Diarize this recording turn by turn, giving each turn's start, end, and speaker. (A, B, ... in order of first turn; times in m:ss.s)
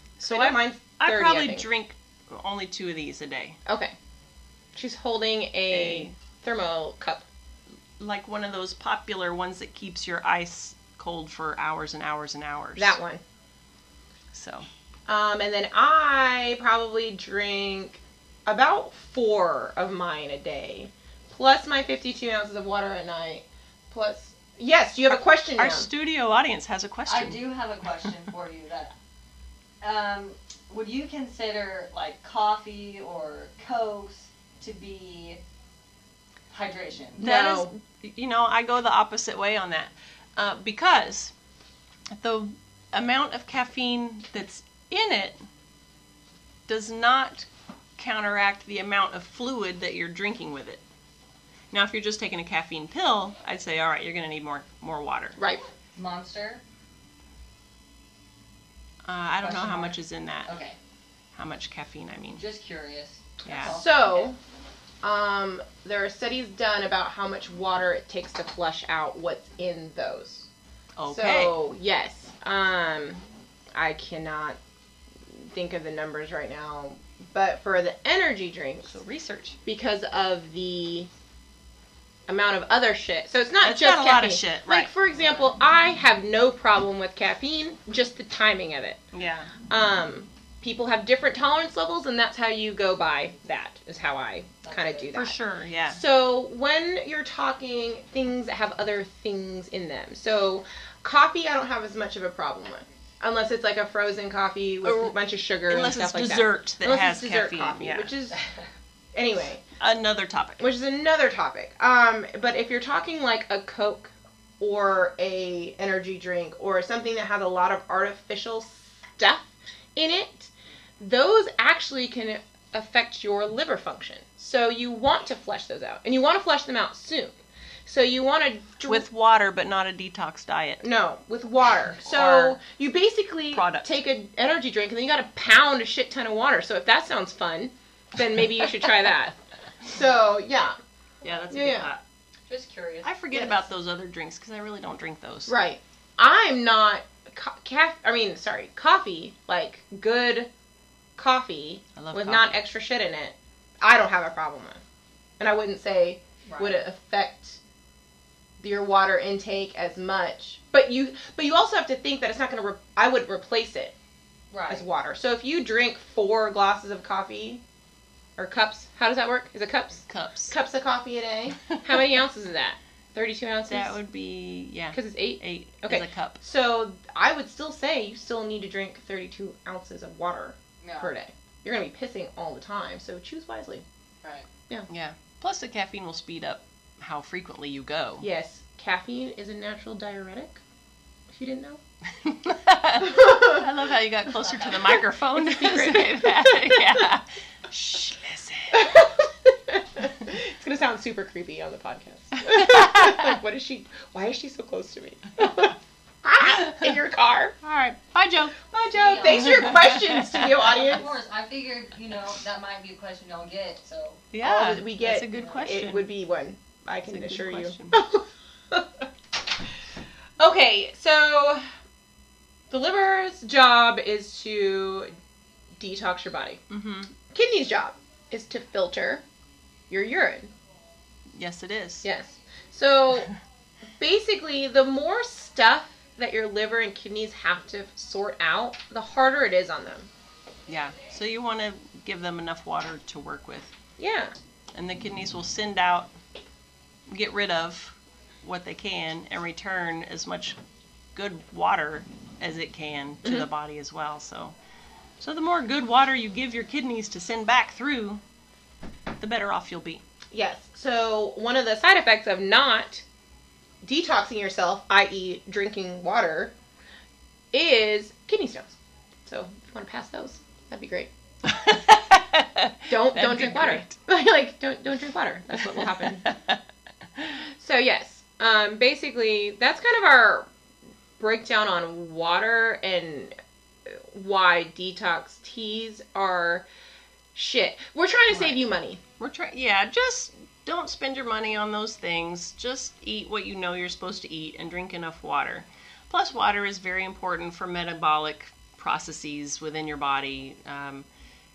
0:00.2-0:03.6 A
0:00.3-0:01.7 B
0:03.7-0:03.9 B
0:04.8-0:07.2 B
0:05.7-0:06.2 A
0:08.0-0:13.0 A
0:12.8-0:13.2 B
0:14.3-0:14.7 A
0:15.1-0:25.9 B
0:25.1-0:27.4 A
0:27.1-0:28.9 C
0:29.8-0:35.4 C
0:36.5-0:37.2 C
0:37.2-0:37.7 B
0:37.2-0:41.3 A
0:42.1-0:45.4 A
0:46.7-0:50.8 A
0:51.7-0:55.4 A
0:55.4-0:55.6 B
0:56.0-0:56.6 C
0:59.1-1:00.5 A
0:59.4-1:00.8 C
1:01.4-1:02.4 A
1:02.4-1:04.3 C
1:03.5-1:03.8 A
1:03.6-1:04.4 B
1:05.0-1:10.5 B
1:11.0-1:11.6 A
1:11.1-1:13.2 B
1:13.7-1:14.6 B
1:15.3-1:19.0 B
1:18.9-1:19.6 A
1:19.6-1:21.1 B
1:22.3-1:29.0 B
1:23.6-1:24.9 A
1:29.1-1:29.5 A
1:29.7-1:35.4 B
1:34.6-1:35.1 C
1:35.1-1:36.0 A
1:35.9-1:48.4 B
1:44.8-1:45.2 A
1:45.7-1:48.1 A
1:49.1-1:49.6 B
1:49.8-1:50.6 A
1:50.6-2:07.4 B
2:07.9-2:09.1 B
2:08.9-2:10.8 A
2:10.8-2:20.8 B
2:12.0-2:12.6 A
2:13.5-2:14.0 A
2:21.2-2:22.0 A
2:21.5-2:21.9 B
2:22.5-2:23.1 C
2:23.0-2:25.5 A
2:25.5-2:30.5 B
2:31.2-2:34.8 B
2:32.0-2:32.6 A
2:35.4-2:37.6 B
2:36.5-2:36.8 C
2:38.6-2:44.0 B
2:44.5-2:44.8 C
2:44.7-2:47.6 B
2:48.4-2:54.0 B
2:50.1-2:50.5 A
2:53.6-2:56.4 A
2:54.9-3:03.8 B
3:00.8-3:01.1 C
3:04.2-3:04.5 C
3:04.9-3:08.3 A
3:08.2-3:10.6 B
3:11.3-3:11.8 B
3:12.2-3:18.9 A
3:13.0-3:13.7 B
3:14.4-3:15.0 C
3:15.4-3:17.1 B
3:18.7-3:27.6 B
3:22.4-3:23.4 A
3:26.4-3:26.9 A
3:27.6-3:28.6 A
3:28.7-3:31.2 B
3:28.9-3:34.3 C
3:29.3-3:30.5 A
3:34.3-3:36.1 A
3:34.4-3:39.1 B
3:37.1-3:38.0 A
3:40.4-3:41.7 B
3:42.7-3:45.1 B
3:45.8-3:46.6 B
3:46.7-3:47.1 A
3:47.3-3:49.2 B
3:49.9-3:50.5 B
3:51.3-3:52.0 A
3:52.0-3:53.3 B
3:54.0-4:00.1 B
4:00.7-4:03.7 A
4:04.0-4:04.3 B
4:04.7-4:06.1 A
4:07.1-4:10.6 A
4:11.2-4:14.6 A
4:15.2-4:18.2 A
4:19.2-4:20.0 A
4:20.3-4:23.0 B
4:23.8-4:26.5 B
4:27.5-4:28.8 B
4:29.3-4:31.1 B
4:31.4-4:34.0 A
4:32.9-4:36.3 B
4:35.8-4:36.6 A
4:37.6-4:40.5 B
4:41.2-4:43.4 B
4:43.9-4:46.7 B
4:47.4-4:49.0 B
4:48.3-4:48.6 A
4:49.2-5:01.1 A